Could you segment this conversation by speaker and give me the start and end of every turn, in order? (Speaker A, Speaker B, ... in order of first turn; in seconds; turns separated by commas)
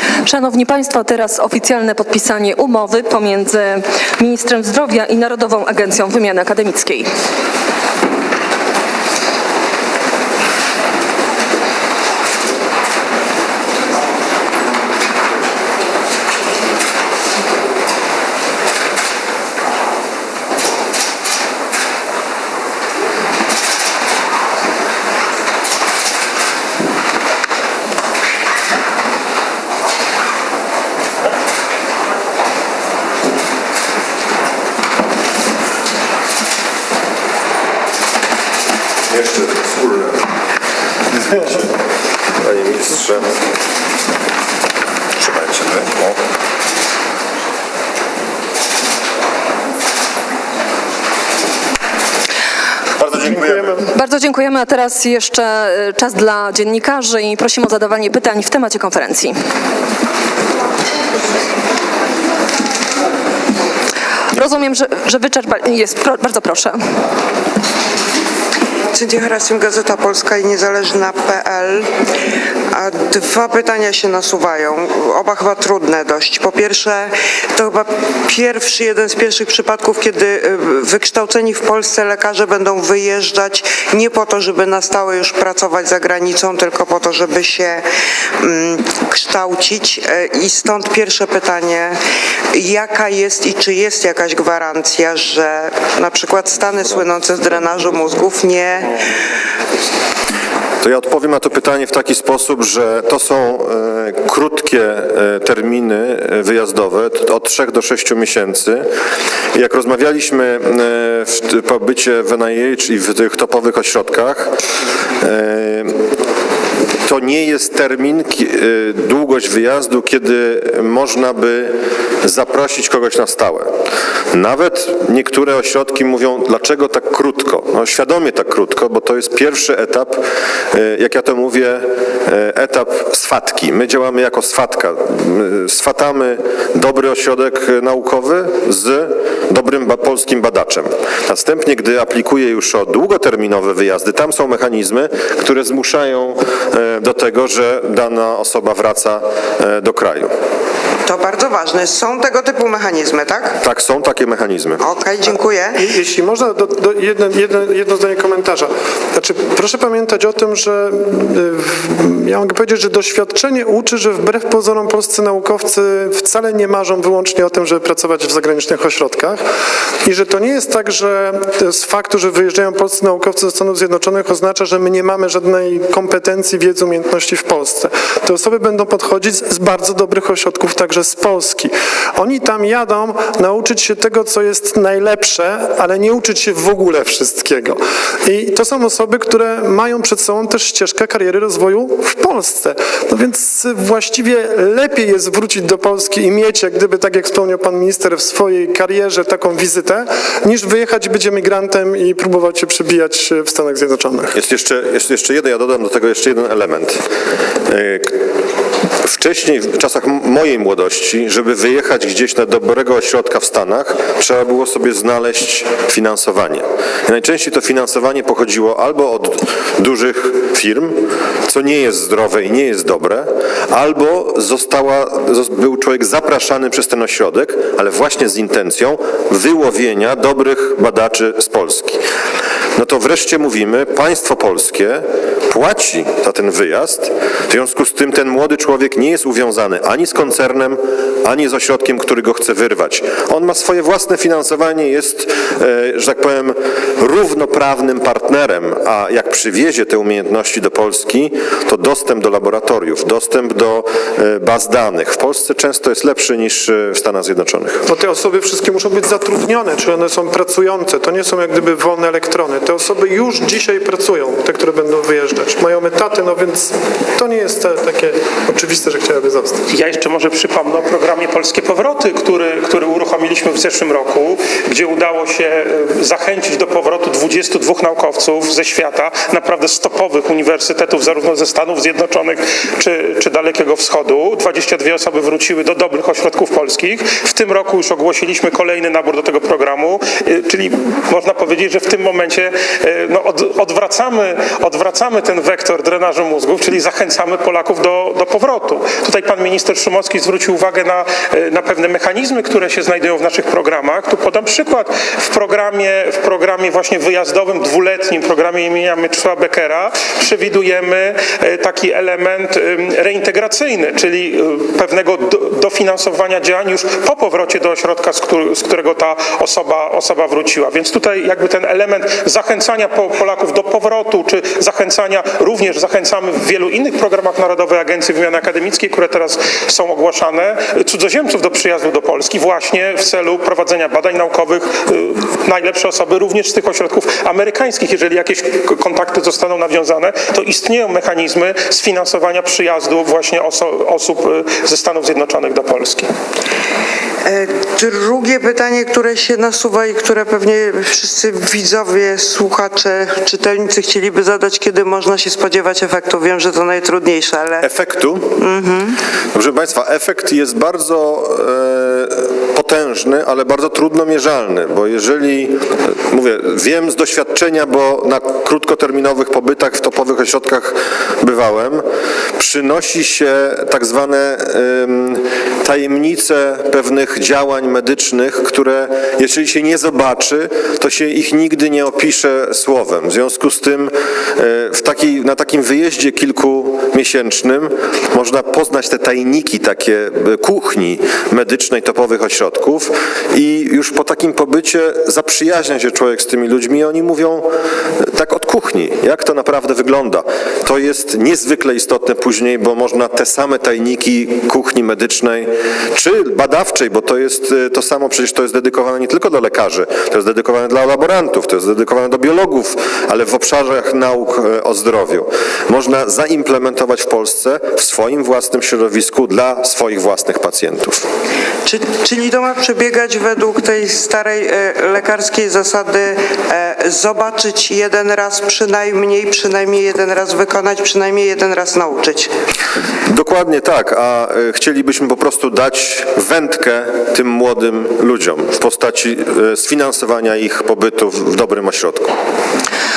Speaker A: 0.2-7.1, Speaker B: 39.1-40.2, Speaker B: 42.4-43.3, Speaker B: 45.2-46.2, Speaker B: 53.0-53.8, Speaker C: 53.4-53.8, Speaker A: 54.0-59.4, Speaker A: 64.3-66.8, Speaker D: 68.9-71.9, Speaker D: 72.7-87.8, Speaker D: 88.4-92.0, Speaker D: 92.5-99.0, Speaker B: 100.8-108.9, Speaker B: 109.5-114.5, Speaker B: 115.2-116.0, Speaker B: 117.0-123.7, Speaker B: 124.3-130.2, Speaker B: 130.7-150.3, Speaker D: 151.1-153.6, Speaker B: 153.6-154.8, Speaker D: 154.8-155.8, Speaker C: 155.8-169.4, Speaker C: 170.1-204.4, Speaker B: 204.3-207.0, Speaker B: 207.7-208.2, Speaker B: 209.0-232.0, Speaker B: 232.8-257.8, Speaker C: 257.9-269.7, Speaker E: 269.7-346.1, Speaker D: 347.2-357.6, Speaker B: 357.6-358.4, Speaker D: 358.4-359.0, Speaker B: 359.3-371.9, Speaker B: 372.4-397.5, Speaker B: 398.0-421.0, Speaker D: 421.6-432.3, Speaker B: 433.1-442.1